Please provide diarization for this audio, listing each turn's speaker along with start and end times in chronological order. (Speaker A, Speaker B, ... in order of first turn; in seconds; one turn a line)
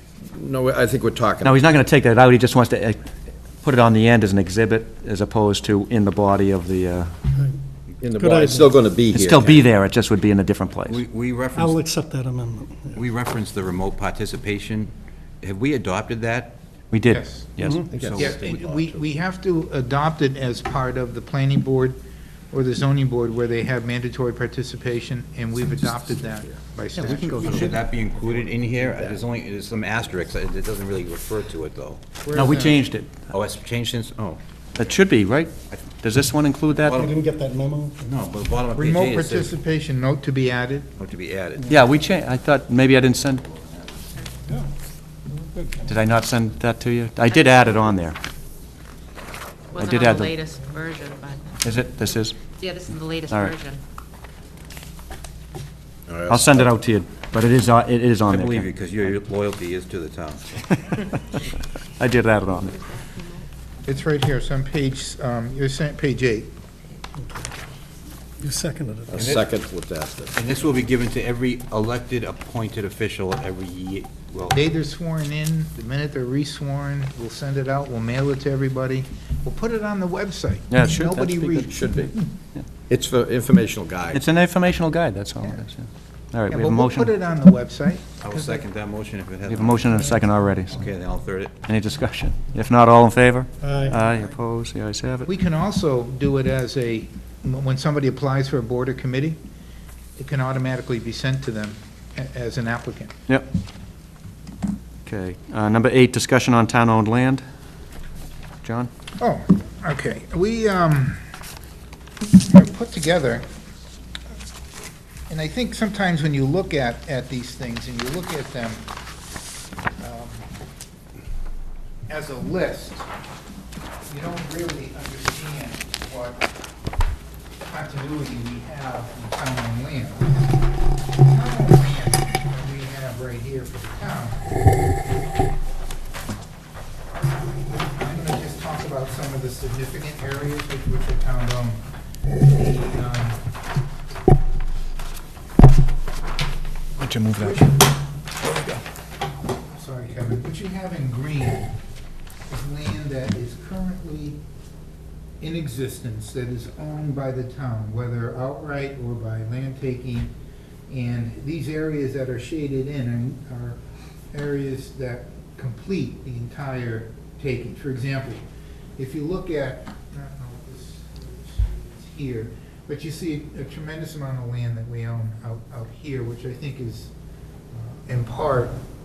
Speaker A: 0.2-1.7
Speaker B: 1.4-3.1
Speaker B: 3.6-7.1
Speaker A: 8.0-9.7
Speaker C: 8.1-8.8
Speaker B: 9.1-11.0
Speaker D: 10.9-11.8
Speaker C: 11.5-13.0
Speaker D: 12.9-14.9
Speaker D: 15.4-16.6
Speaker B: 16.9-17.8
Speaker E: 17.1-22.0
Speaker C: 17.6-17.9
Speaker A: 17.9-18.8
Speaker D: 17.9-18.8
Speaker E: 22.5-27.8
Speaker B: 27.1-27.5
Speaker D: 27.4-32.0
Speaker A: 28.9-29.2
Speaker E: 32.2-32.8
Speaker B: 32.3-33.3
Speaker D: 33.2-35.0
Speaker B: 34.7-37.0
Speaker D: 36.7-37.1
Speaker C: 36.9-38.1
Speaker D: 38.0-39.5
Speaker E: 38.7-40.9
Speaker D: 41.0-41.7
Speaker B: 41.7-43.4
Speaker C: 45.3-45.9
Speaker B: 45.9-48.2
Speaker B: 49.7-50.4
Speaker F: 49.7-51.6
Speaker B: 51.6-52.4
Speaker F: 52.5-53.8
Speaker B: 53.3-53.6
Speaker A: 56.1-56.6
Speaker B: 56.2-59.1
Speaker D: 58.3-60.5
Speaker B: 60.6-61.0
Speaker B: 62.0-62.8
Speaker F: 62.8-63.4
Speaker E: 63.8-66.5
Speaker C: 68.4-69.3
Speaker A: 69.1-70.3
Speaker D: 69.2-69.5
Speaker D: 70.3-74.6
Speaker E: 74.5-82.0
Speaker B: 80.7-81.7
Speaker A: 81.6-82.1
Speaker A: 82.9-84.2
Speaker B: 84.1-87.1
Speaker E: 86.5-88.2
Speaker D: 88.2-91.6
Speaker B: 89.4-90.9
Speaker B: 91.6-95.3
Speaker C: 93.6-94.2
Speaker E: 95.2-99.4
Speaker E: 100.2-103.1
Speaker B: 105.0-107.4
Speaker B: 108.6-108.9
Speaker E: 109.2-111.3
Speaker E: 112.5-113.5
Speaker E: 115.3-118.8
Speaker E: 120.0-120.5
Speaker E: 122.1-123.1
Speaker E: 124.1-126.5
Speaker E: 127.7-130.4
Speaker E: 131.2-134.4
Speaker E: 137.8-141.8
Speaker E: 142.5-143.4
Speaker E: 147.3-147.8
Speaker E: 149.6-151.7
Speaker E: 152.5-154.4
Speaker E: 155.4-160.3
Speaker E: 160.9-163.8
Speaker E: 164.3-168.4
Speaker E: 169.0-177.1
Speaker E: 177.7-178.8